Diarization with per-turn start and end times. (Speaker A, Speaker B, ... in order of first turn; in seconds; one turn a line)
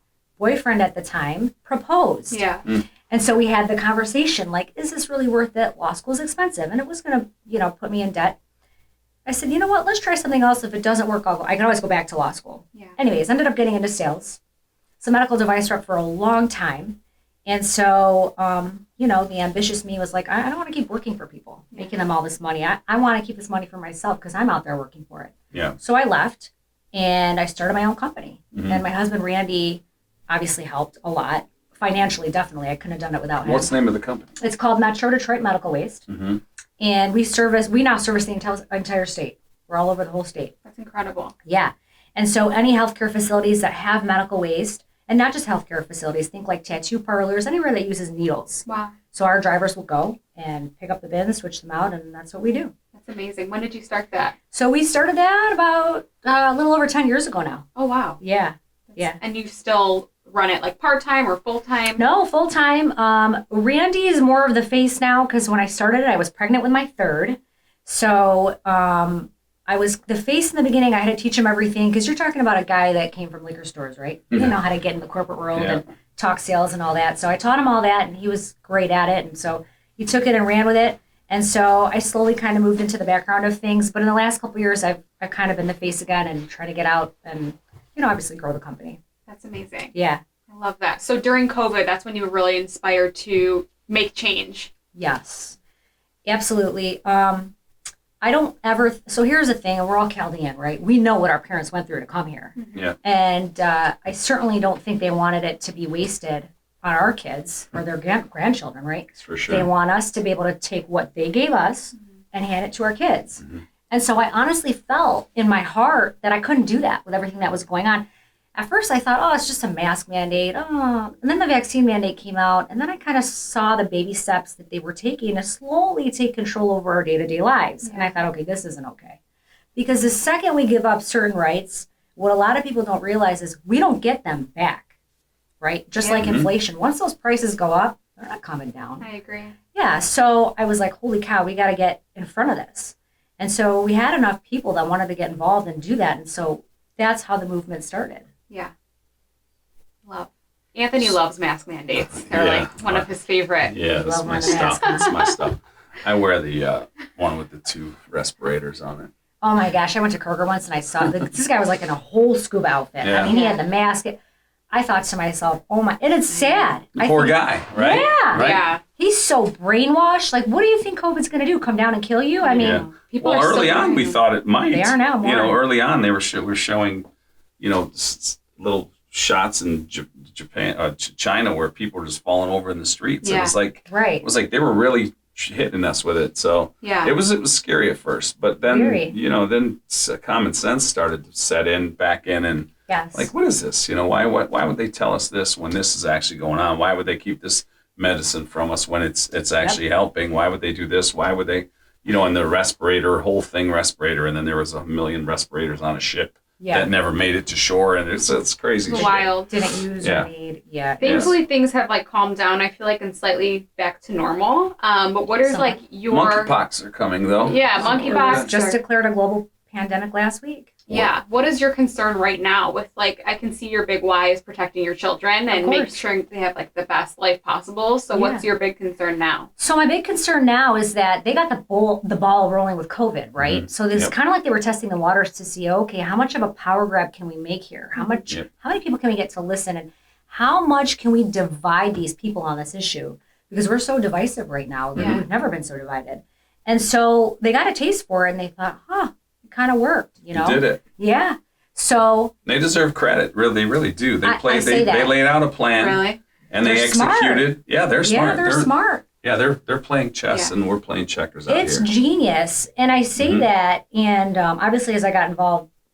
Speaker A: 0.4-2.4
Speaker B: 2.3-2.6
Speaker A: 3.1-8.4
Speaker A: 9.3-14.4
Speaker A: 15.0-33.8
Speaker C: 25.5-25.8
Speaker C: 28.5-28.8
Speaker C: 33.4-34.3
Speaker A: 34.4-36.1
Speaker C: 36.1-36.4
Speaker A: 36.8-40.6
Speaker B: 40.6-41.3
Speaker A: 41.5-52.7
Speaker B: 48.7-49.0
Speaker B: 53.0-54.4
Speaker A: 54.5-57.6
Speaker B: 57.8-58.2
Speaker A: 58.2-59.2
Speaker B: 58.9-62.0
Speaker A: 62.0-89.0
Speaker C: 75.5-75.8
Speaker B: 89.3-89.9
Speaker A: 89.9-90.2
Speaker B: 90.5-94.7
Speaker A: 95.0-95.6
Speaker A: 96.3-97.5
Speaker A: 98.2-129.2
Speaker B: 102.6-102.8
Speaker C: 109.2-109.7
Speaker B: 127.8-128.1
Speaker A: 129.8-134.9
Speaker A: 135.6-139.1
Speaker B: 136.0-136.3
Speaker C: 136.2-136.5
Speaker B: 139.0-139.6
Speaker A: 139.7-148.2
Speaker B: 150.1-153.8
Speaker C: 152.2-153.1
Speaker C: 153.7-159.1
Speaker A: 154.0-155.1
Speaker B: 154.5-155.4
Speaker A: 159.4-164.2
Speaker C: 163.0-163.3
Speaker B: 163.3-163.6
Speaker A: 164.7-172.9
Speaker B: 166.4-166.7
Speaker C: 166.9-168.7
Speaker B: 168.3-168.8
Speaker B: 172.4-174.2
Speaker C: 172.6-177.1
Speaker A: 173.5-173.8
Speaker A: 174.7-175.6
Speaker C: 177.6-209.4
Speaker B: 183.2-183.6
Speaker A: 183.9-184.3
Speaker B: 186.8-187.1
Speaker A: 188.7-189.2
Speaker A: 192.9-193.3
Speaker A: 206.6-206.9
Speaker B: 208.9-209.7
Speaker A: 208.9-211.4
Speaker C: 210.0-210.3
Speaker B: 211.0-216.5
Speaker C: 211.0-211.3
Speaker A: 215.4-215.8
Speaker C: 216.1-218.5
Speaker B: 217.4-218.8
Speaker A: 217.8-220.7
Speaker B: 220.9-229.5
Speaker A: 225.5-226.0
Speaker A: 228.1-228.4
Speaker A: 229.6-252.3
Speaker C: 233.4-234.1
Speaker C: 244.9-245.2
Speaker B: 245.0-245.2
Speaker C: 250.3-250.8
Speaker C: 252.5-261.9
Speaker A: 254.2-255.2
Speaker B: 255.8-256.2
Speaker A: 256.6-259.1
Speaker B: 260.3-260.5
Speaker A: 261.5-265.7
Speaker C: 263.2-263.5